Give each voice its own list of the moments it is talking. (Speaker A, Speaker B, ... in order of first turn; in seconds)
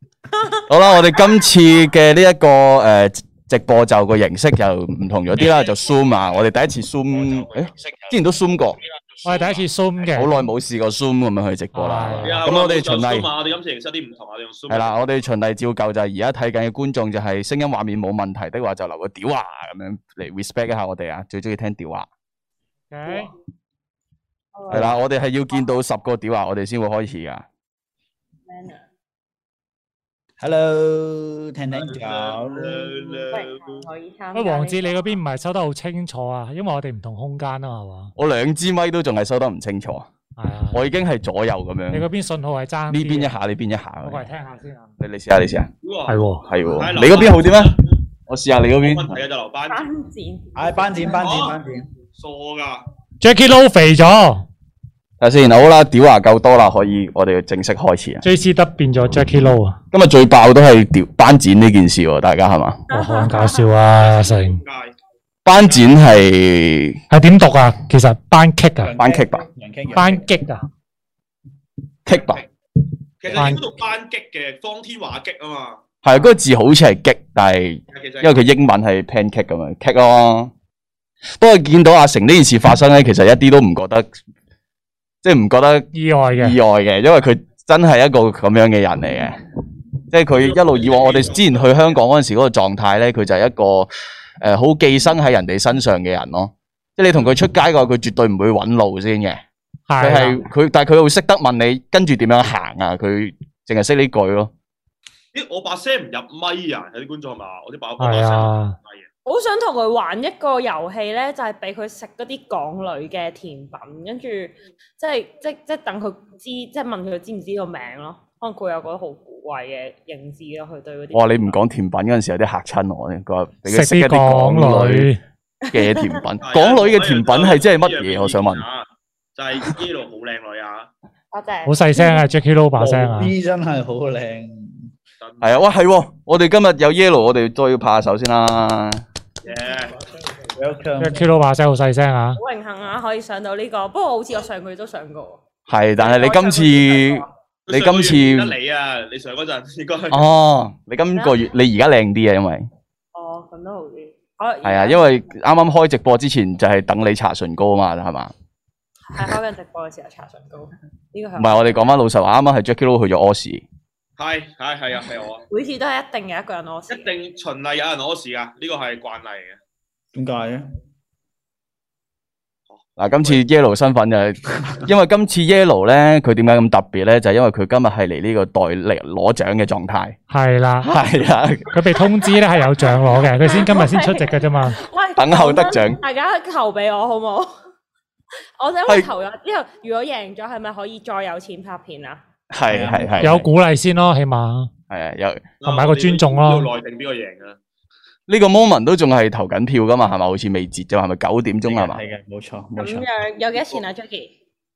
Speaker A: 0.7-8.8, 10.1-13.3, 14.7-22.1, 24.7-27.5, 38.2-40.1, 40.7-42.1, 42.9-44.3, 45.0-45.7, 46.4-49.2, 55.2-58.2, 59.9-62.9, 65.5-67.0, 69.0-69.4, 72.1-72.4, 76.0-80.5, 81.4-84.1, 85.2-89.4, 90.1-93.9, 94.4-99.4, 100.0-104.5, 121.1-125.1, 125.7-128.7, 135.4-139.0, 145.7-148.5, 150.1-152.7, 154.6-158.3, 161.4-163.6, 173.0-180.2, 180.8-181.7, 185.2-186.0, 192.5-193.5, 194.9-195.5, 198.3-202.0
Speaker B: 9.2-10.4, 11.7-12.5, 22.9-23.3, 34.3-38.1, 40.4-40.9, 41.9-43.4, 44.0-45.0, 46.1-46.6, 53.2-54.5, 58.2-59.8, 62.9-64.6, 67.1-69.0, 69.9-70.6, 73.4-73.7, 85.9-86.6, 99.9-100.5, 108.0-108.8, 123.7-125.2, 131.7-133.3, 141.0-142.4, 180.3-180.9, 181.7-184.8, 193.2-194.7, 195.6-196.7
Speaker C: 12.2-14.9, 31.7-33.9, 45.8-47.9, 48.8-49.8, 51.2-51.6, 52.1-52.9, 63.9-64.9, 72.1-72.5, 73.2-75.8, 77.9-78.4, 90.4-92.0, 105.3-109.1, 126.4-130.9, 135.2-135.7, 139.4-139.9, 147.7-150.2, 164.2-165.4, 166.9-169.6, 172.7-173.4, 195.6-197.6
Speaker D: 24.6-25.0, 28.5-28.8, 33.3-35.0, 49.7-50.5, 62.9-63.7, 109.3-121.6, 125.7-126.2, 131.3-132.2, 142.4-145.4, 146.0-147.3, 151.2-151.5, 153.1-155.1, 159.1-161.6, 165.5-167.1, 182.2-187.5, 188.6-192.2, 202.8-204.3
Speaker E: 30.4-33.1, 50.5-51.9, 68.8-70.3, 73.2-73.6, 132.8-134.9, 140.5-141.3, 170.1-170.7, 192.7-193.5, 201.7-203.1